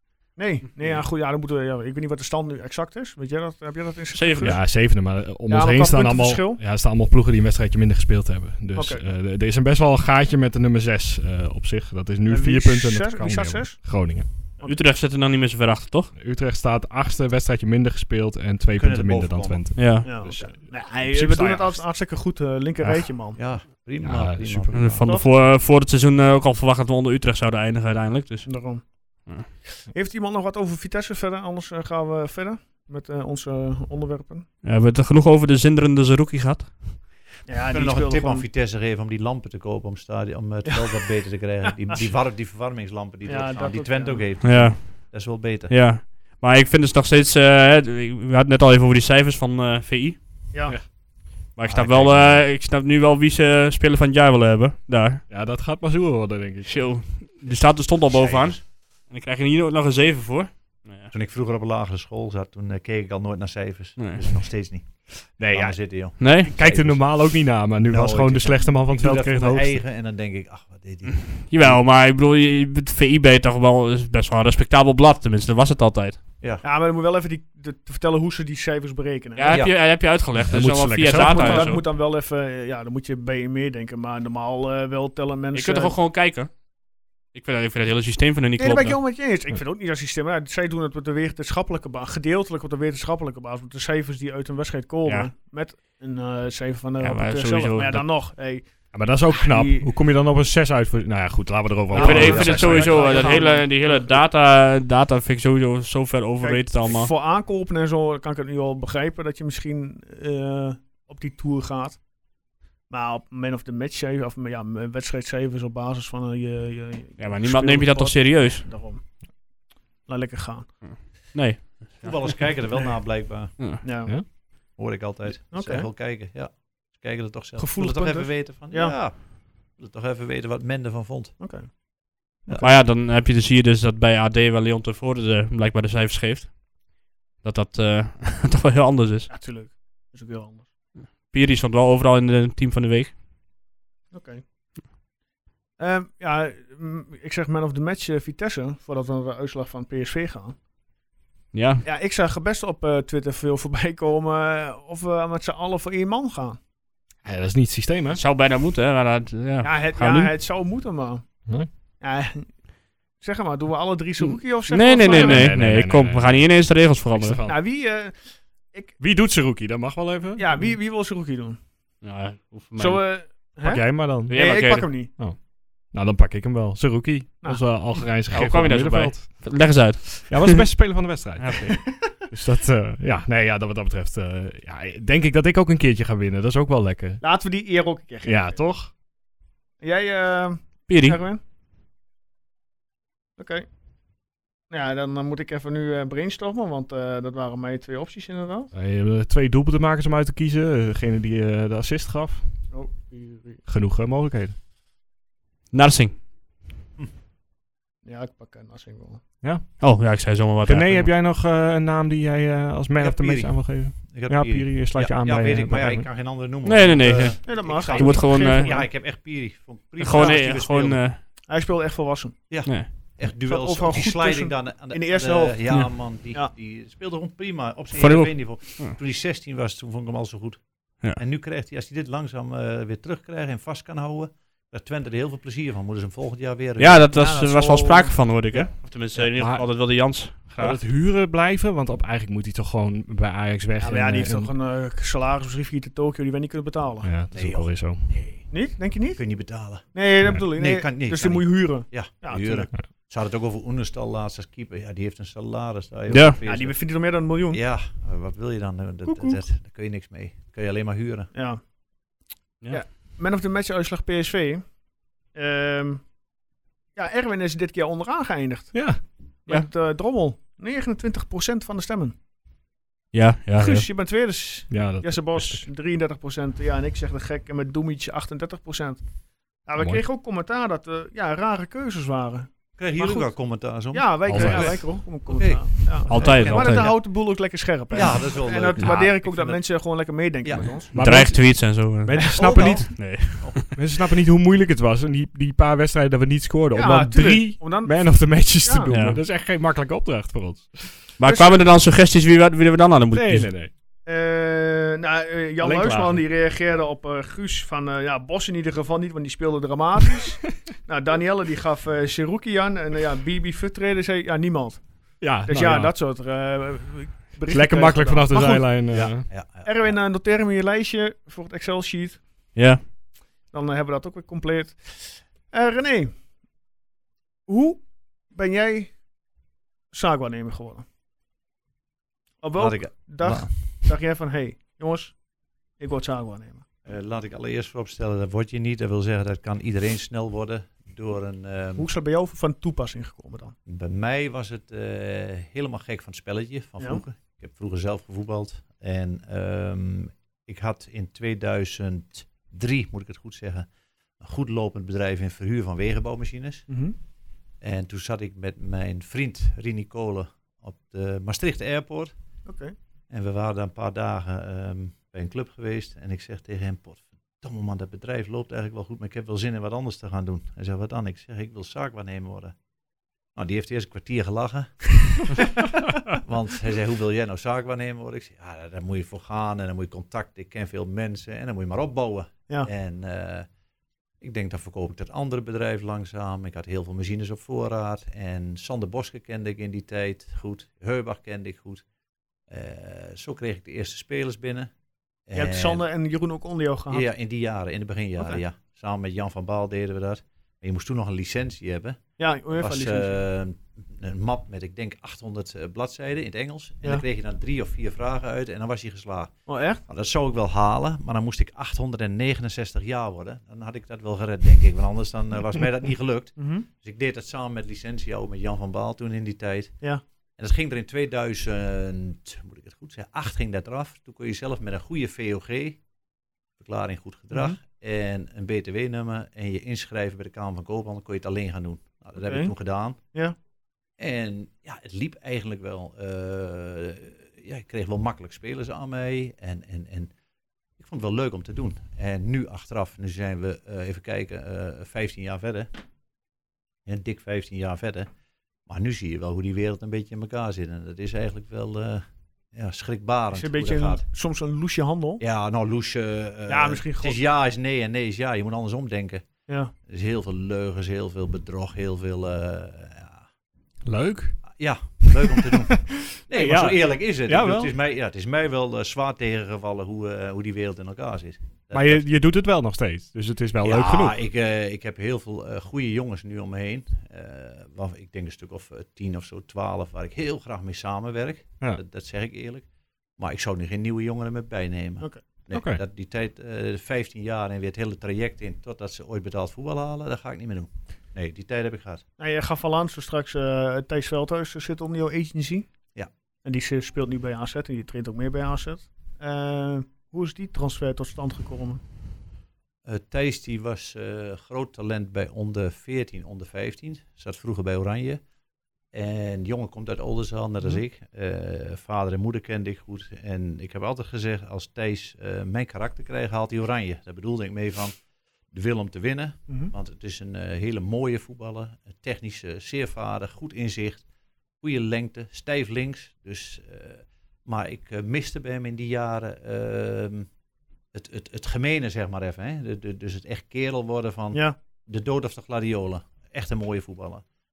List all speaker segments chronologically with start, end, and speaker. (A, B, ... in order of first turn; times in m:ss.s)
0:00.4-0:04.9 A
0:04.1-0:04.6 B
0:04.4-0:14.3 C
0:05.5-0:06.6 A
0:08.7-0:09.0 A
0:12.3-0:14.8 A
0:14.6-0:16.1 B
0:16.1-0:21.8 C
0:18.7-0:20.5 D
0:19.8-0:20.2 B
0:20.0-0:23.4 A
0:23.3-0:25.0 D
0:24.0-0:25.2 C
0:24.7-0:29.5 B
0:25.0-0:25.3 A
0:28.4-0:29.3 A
0:29.9-0:34.5 A
0:34.6-0:37.3 B
0:37.4-0:38.5 A
0:37.7-0:45.7 D
0:40.6-0:41.0 A
0:43.2-0:44.2 A
0:44.4-0:50.9 B
0:51.5-0:55.2 B
0:51.7-0:52.4 D
0:55.3-0:57.0 C
0:56.6-1:01.1 B
0:58.0-0:58.6 D
1:01.1-1:11.8 D
1:04.0-1:04.2 B
1:05.4-1:09.8 C
1:06.2-1:06.5 B
1:11.3-1:16.2 B
1:16.6-1:19.6 A
1:19.4-1:21.8 B
1:20.4-1:21.7 C
1:21.1-1:25.9 A
1:25.5-1:26.6 B
1:27.3-1:29.0 B
1:28.6-1:39.9 A
1:35.0-1:35.3 B
1:37.0-1:38.1 B
1:38.9-1:43.5 C
1:41.9-1:44.2 A
1:41.9-1:47.1 B
1:42.0-1:43.3 D
1:46.4-1:52.1 A
1:52.9-1:59.0 A
1:57.2-1:58.7 B
2:00.0-2:00.8 A
2:00.8-2:02.6 B
2:01.9-2:03.6 D
2:03.5-2:04.1 A
2:04.7-2:11.4 D
2:05.5-2:05.9 A
2:07.6-2:09.0 A
2:11.4-2:11.7 A
2:12.5-2:12.7 D
2:12.6-2:19.3 B
2:19.3-2:20.7 A
2:21.0-2:23.2 B
2:24.1-2:24.4 A
2:25.8-2:30.6 A
2:31.5-2:31.8 B
2:31.8-2:36.6 A
2:37.2-2:38.2 C
2:38.1-2:40.3 B
2:39.6-2:41.2 A
2:42.0-2:45.5 A
2:44.2-2:47.4 B
2:45.0-2:47.6 C
2:47.4-2:48.9 A
2:49.0-2:50.7 C
2:50.4-2:51.6 A
2:52.0-2:53.1 B
2:52.8-2:55.1 A
2:53.6-3:07.2 C
2:54.3-2:55.1 B
2:57.4-2:57.7 A
2:58.3-3:00.6 B
3:01.4-3:01.9 B
3:07.2-3:08.6 A
3:08.2-3:08.9 C
3:09.8-3:11.4 A
3:10.9-3:11.2 B
3:13.4-3:13.7 A
3:14.7-3:18.7 A
3:18.7-3:22.7 C
3:22.7-3:23.6 A
3:23.6-3:24.5 C
3:25.7-3:26.2 B
3:28.0-3:29.2 A
3:29.4-3:36.1 C
3:29.8-3:31.1 B
3:33.0-3:41.0 D
3:36.6-3:38.7 B
3:37.4-3:38.9 A
3:40.0-3:41.2 B
3:40.1-3:40.5 A
3:41.5-3:42.8 A
3:42.5-3:57.0 D
3:42.6-3:42.9 B
3:43.4-3:46.5 A
3:48.0-3:49.0 B
3:56.8-4:00.8 B
3:57.1-3:58.7 A
3:59.1-4:04.5 C
4:03.8-4:07.1 A
4:07.0-4:08.1 C
4:07.3-4:17.0 D
4:08.5-4:12.7 A
4:16.1-4:16.4 B
4:16.4-4:17.6 A
4:17.5-4:21.3 D
4:19.0-4:19.4 A
4:21.3-4:21.6 A
4:22.7-4:24.8 A
4:25.3-4:26.1 A
4:26.9-4:32.1 A
4:28.7-4:29.0 C
4:33.1-4:33.9 B
4:33.6-4:50.9 A
4:34.7-4:35.7 C
4:39.8-4:40.0 C
4:42.8-4:47.0 D
4:44.3-4:45.0 C
4:46.1-4:47.0 B
4:46.1-4:46.9 C
4:47.9-4:49.7 D
4:48.8-4:49.1 C
4:50.4-4:50.8 D
4:50.9-4:53.0 C
4:50.9-4:53.7 B
4:52.1-4:52.9 A
4:52.3-4:53.6 D
4:53.7-5:01.1 C
4:56.7-4:58.9 A
4:58.9-4:59.2 B
5:01.2-5:03.6 B
5:01.2-5:01.6 A
5:03.1-5:03.7 C
5:04.0-5:19.0 A
5:05.6-5:06.2 C
5:15.2-5:16.0 C
5:17.5-5:19.3 C
5:18.9-5:20.0 D
5:19.6-5:22.5 A
5:22.5-5:22.8 B
5:23.5-5:26.2 A
5:27.4-5:29.0 A
5:29.9-5:30.8 A
5:32.4-5:35.2 A
5:32.6-5:33.9 D
5:35.8-5:36.6 A
5:36.8-5:41.9 D
5:41.8-5:43.5 A
5:43.6-5:53.7 D
5:54.2-5:56.8 D
5:56.7-5:57.0 A
5:57.6-6:02.1 D
6:02.4-6:02.7 A
6:03.1-6:12.5 D
6:13.3-6:23.5 D
6:24.2-6:31.8 D
6:32.5-6:34.7 D
6:35.2-6:35.8 D
6:35.3-6:37.1 A
6:36.9-7:05.8 D
6:42.2-6:43.2 A
6:49.5-6:49.8 A
6:56.4-6:56.7 A
7:06.6-7:13.1 D
7:07.3-7:07.6 A
7:12.2-7:13.4 A
7:14.0-7:20.1 D
7:20.8-7:25.7 D
7:26.8-7:28.1 D
7:28.6-7:34.0 D
7:33.3-7:35.2 A
7:35.2-7:43.2 D
7:36.5-7:37.2 A
7:39.5-7:39.7 A
7:43.8-7:44.4 C
7:44.5-7:52.0 D
7:45.0-7:45.5 C
7:46.2-7:47.8 C
7:51.7-7:54.2 C
7:53.6-8:12.0 D
8:05.5-8:05.8 C
8:12.2-8:15.7 A
8:16.4-8:21.8 A
8:22.8-8:28.2 D
8:28.9-8:38.0 D
8:38.5-8:44.0 D
8:44.6-8:50.3 D
8:50.9-8:57.2 D
8:54.3-8:54.6 A